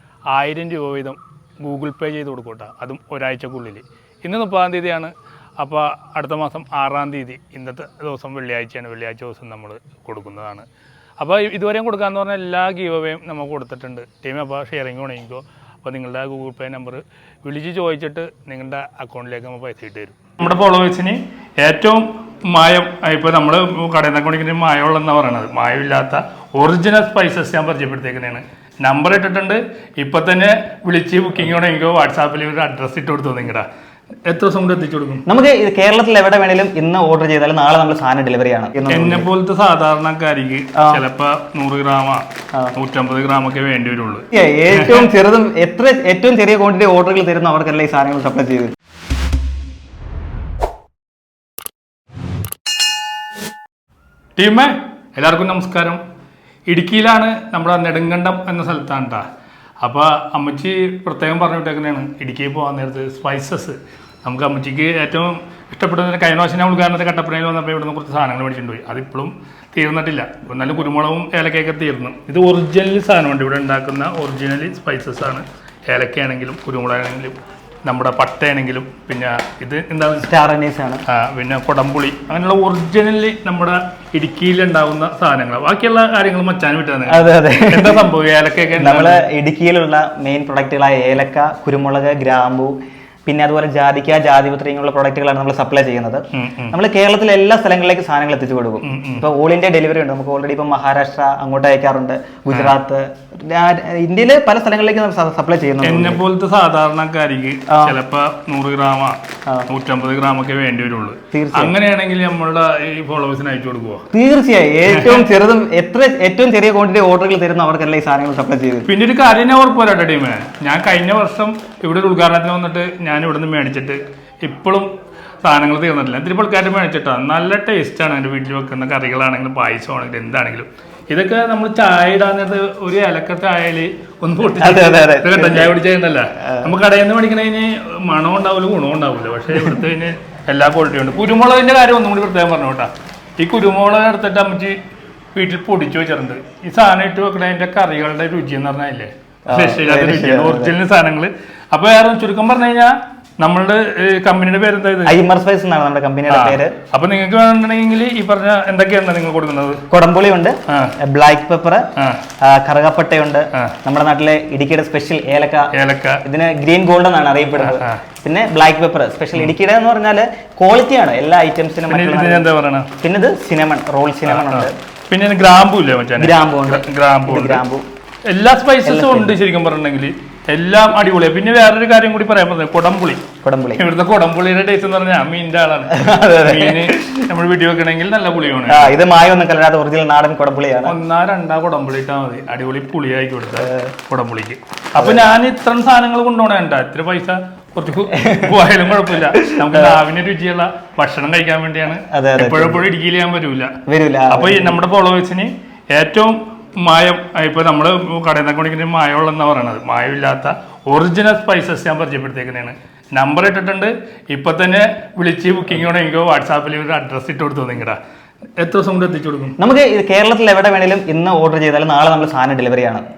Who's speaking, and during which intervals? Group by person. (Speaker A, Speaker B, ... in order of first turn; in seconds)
Speaker A: 0.3-10.7, 11.2-33.7, 34.3-35.2, 38.9-45.1, 54.4-56.0, 56.7-59.2, 59.8-80.3, 81.1-89.3, 96.3-96.8, 98.8-99.2, 105.8-114.1, 114.9-115.3, 118.9-124.9, 125.4-144.8, 145.3-155.2, 156.3-159.8, 160.7-161.0, 161.9-162.2, 165.7-166.2, 167.6-168.0, 171.9-172.9, 174.3-177.6, 178.3-183.2, 183.8-188.9, 190.9-203.8, 204.3-218.0, 218.6-219.6
Speaker B: 35.3-39.3, 40.8-41.0, 44.3-48.7, 80.2-81.0, 87.1-88.1, 88.8-92.8, 93.3-106.2, 107.7-108.0, 111.3-111.8, 114.1-118.9, 134.6-135.7, 136.4-136.7, 149.5-150.8, 155.1-156.7, 159.9-161.9, 162.4-165.7, 166.2-172.5, 173.0-174.7, 176.2-177.9, 178.8-179.4, 183.4-183.8, 185.9-187.2, 188.7-191.0, 193.6-193.9, 195.0-195.2, 198.1-198.5, 199.2-200.0, 202.1-202.8, 203.9-204.8, 219.6-223.0